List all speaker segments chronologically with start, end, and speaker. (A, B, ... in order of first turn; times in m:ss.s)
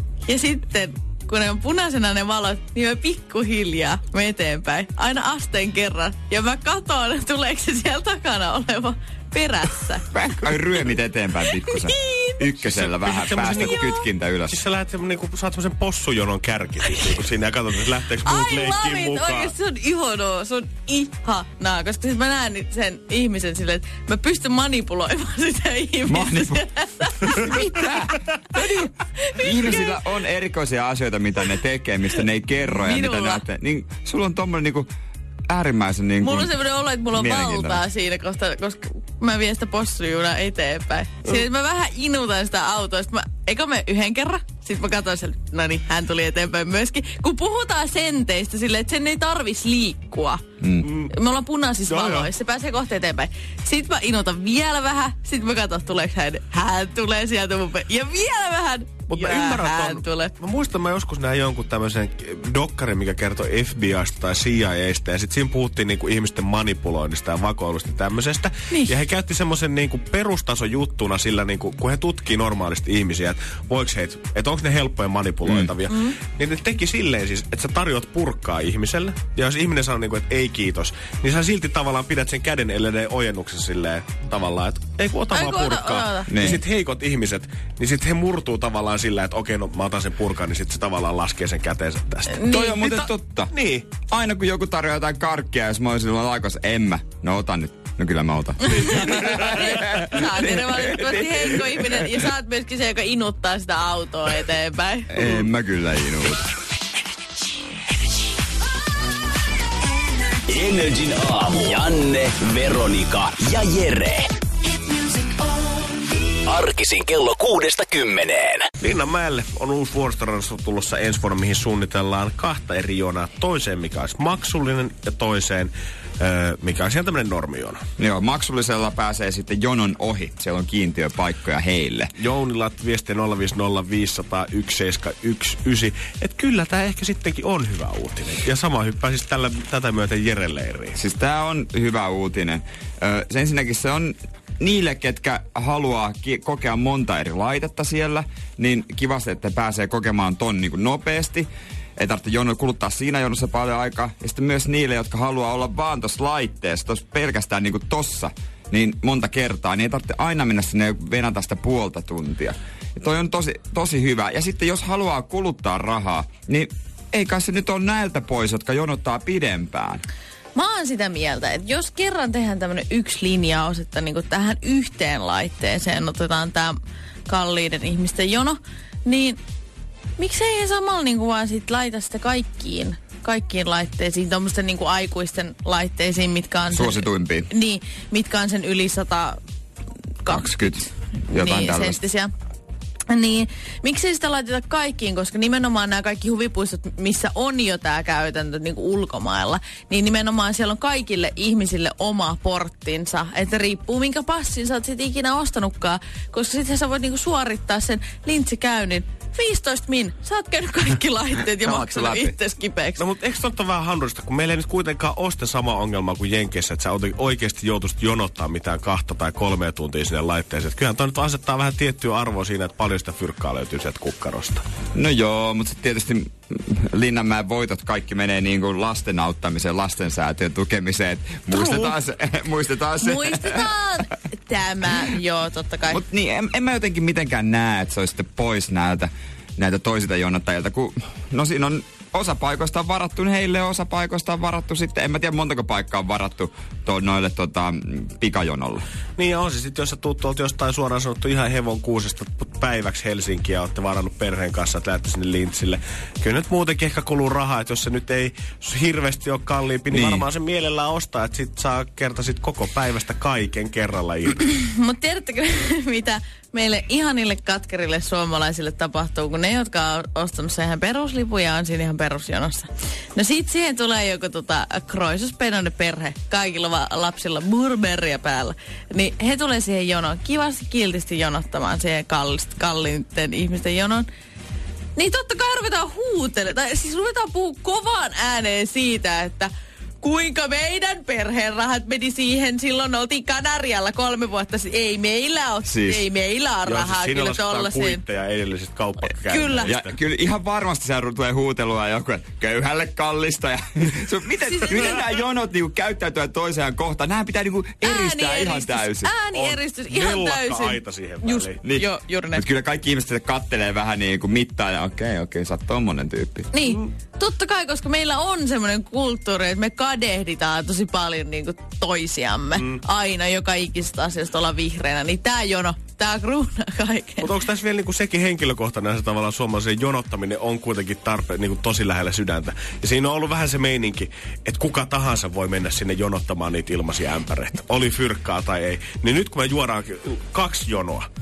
0:00.2-0:10.0 A
0:10.1-0:14.6 B
0:11.7-0:12.5 A
0:12.6-0:19.5 C
0:13.6-0:13.8 A
0:16.9-0:17.2 A
0:18.2-0:28.3 A
0:26.1-0:26.6 B
0:27.3-0:34.9 B
0:29.3-0:30.0 A
0:32.6-0:33.4 A
0:35.5-0:36.6 B
0:36.2-0:50.4 A
0:37.1-0:37.8 B
0:50.6-0:50.9 B
0:50.8-0:51.1 C
0:51.0-1:00.3 A
0:51.9-0:52.3 C
0:59.1-1:33.9 C
1:15.9-1:16.2 A
1:25.3-1:26.3 A
1:26.3-1:26.6 B
1:32.3-1:32.8 A
1:32.5-1:41.9 B
1:38.7-1:45.4 A
1:45.1-1:46.5 B
1:50.5-1:54.3 D
1:56.4-1:58.7 D
1:58.8-2:07.8 C
2:08.0-2:12.1 B
2:12.2-2:21.0 C
2:21.0-2:50.0 B
2:50.6-2:56.7 A
2:57.3-2:59.4 A
3:00.2-3:09.4 A
3:06.7-3:07.5 B
3:10.2-3:10.8 A
3:10.3-3:12.0 B
3:11.3-3:12.3 A
3:13.1-3:33.1 A
3:31.5-3:32.4 B
3:33.0-3:44.6 C
3:44.9-3:53.7 B
3:51.5-3:51.9 C
3:53.0-3:56.0 A
3:55.9-4:08.8 B
4:09.2-4:24.4 C
4:19.9-4:20.2 B
4:24.5-4:44.1 A
4:45.0-4:49.5 A
4:50.0-4:58.0 A
4:55.6-4:56.0 B
4:56.6-5:00.0 C
4:59.3-4:59.8 A
4:59.7-5:09.1 B
5:04.4-5:05.0 A
5:07.8-5:12.4 A
5:09.3-5:11.6 C
5:11.6-5:16.5 B
5:16.5-5:27.4 A
5:22.6-5:22.8 C
5:27.2-5:41.1 C